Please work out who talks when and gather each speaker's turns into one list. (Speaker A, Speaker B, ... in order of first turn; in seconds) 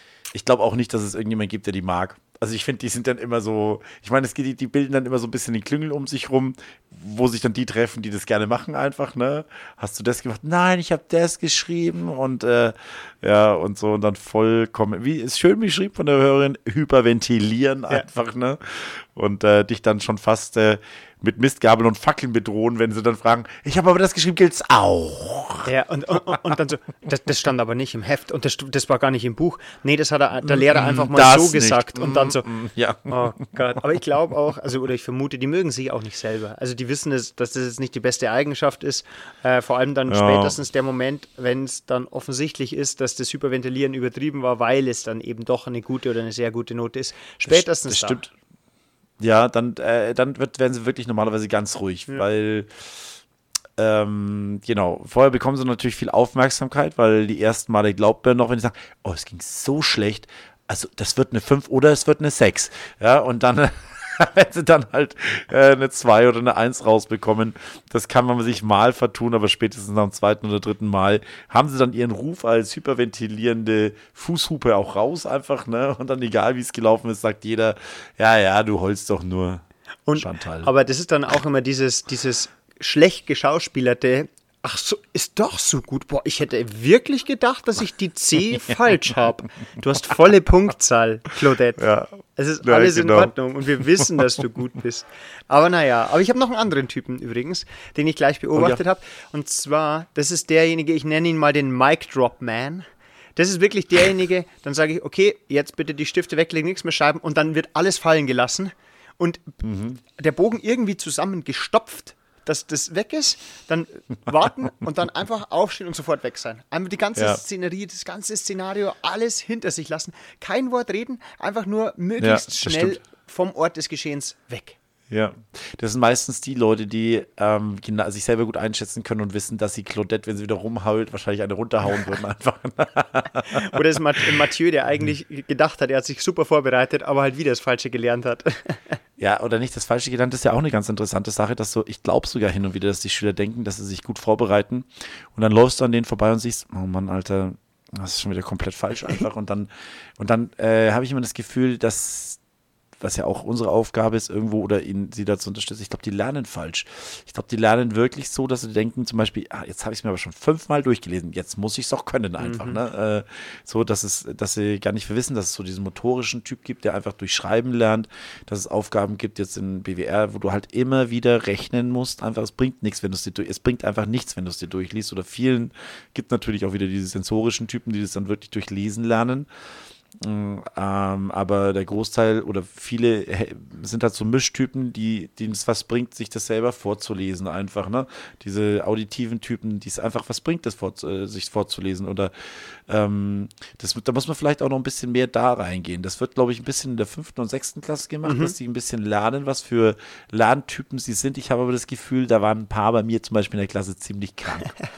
Speaker A: 0.3-25.7, 30.4-33.5, 40.1-40.6, 47.5-48.3, 49.2-53.2, 53.8-80.7, 91.8-93.3, 93.8-94.1, 98.6-98.8, 109.6-110.0, 117.2-117.4, 122.2-123.0, 125.1-133.8, 139.2-152.4, 153.0-179.5, 180.2-204.7
Speaker B: 25.6-32.5, 33.1-48.2, 80.1-109.6, 110.2-124.8, 133.5-139.0, 162.4-162.8, 198.2-198.6